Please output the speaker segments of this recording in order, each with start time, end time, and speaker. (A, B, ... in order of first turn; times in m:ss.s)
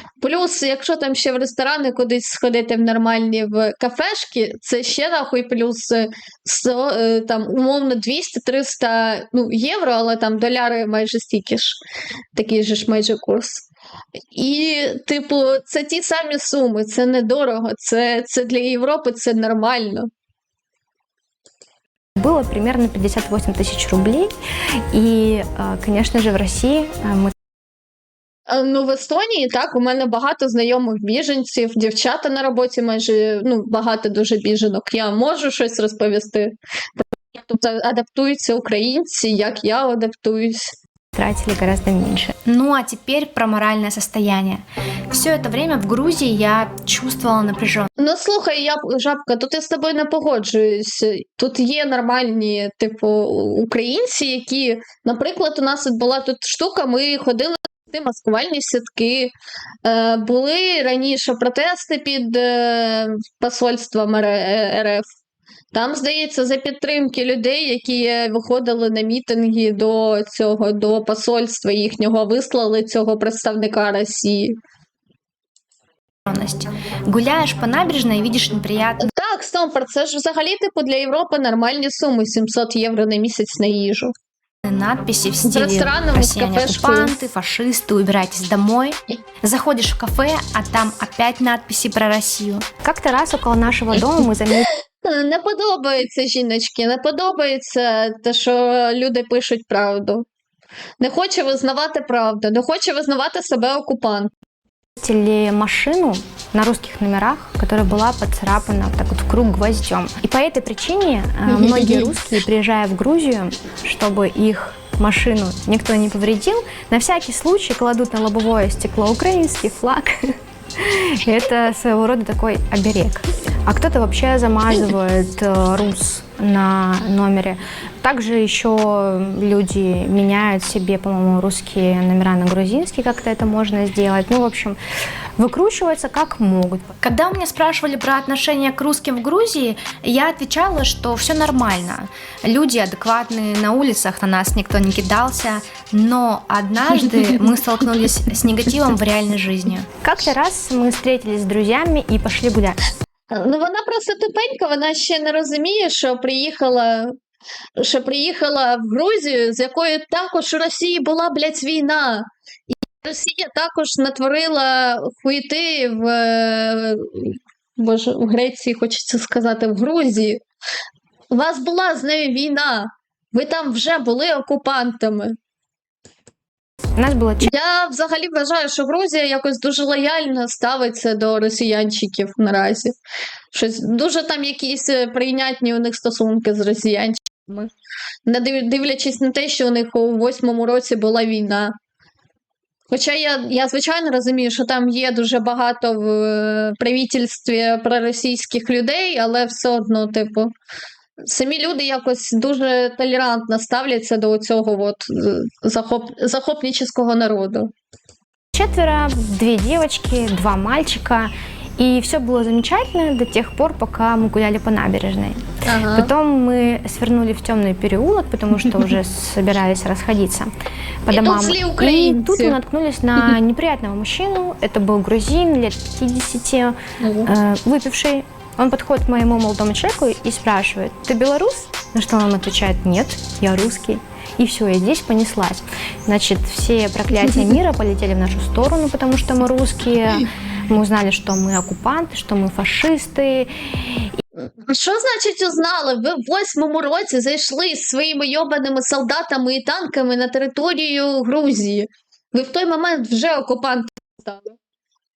0:00.2-0:11.8 A
0:12.3-0:13.7 A
0:14.3-0:20.1 A
0:22.2-0:24.3 B
0:24.9-0:27.3 B
0:28.5-0:40.8 A
0:41.1-0:42.3 B
0:42.4-0:47.9 C
0:48.0-1:05.0 A
1:05.7-1:14.6 A
1:16.2-1:19.1 C
1:19.0-1:24.1 A
1:24.6-1:32.6 C
1:25.4-1:27.2 A
1:32.8-1:34.7 B
1:34.7-1:40.2 A
1:41.0-1:44.3 A
1:45.0-2:14.8 B
1:51.4-1:52.1 A
2:15.4-2:16.9 B
2:17.0-2:29.9 C
2:30.0-2:32.8 B
2:33.3-2:37.2 A
2:37.8-2:42.3 A
2:43.0-2:50.4 A
2:51.3-2:55.4 A
2:57.0-2:57.5 B
2:57.4-3:03.0 A
3:03.5-3:07.7 A
3:08.2-3:11.8 A
3:12.9-3:20.5 A
3:21.2-3:27.7 A
3:28.5-3:40.5 B
3:35.6-3:36.1 A
3:41.1-4:04.1 B
3:41.1-3:42.6 A
3:47.0-3:47.3 A
4:04.4-4:14.6 A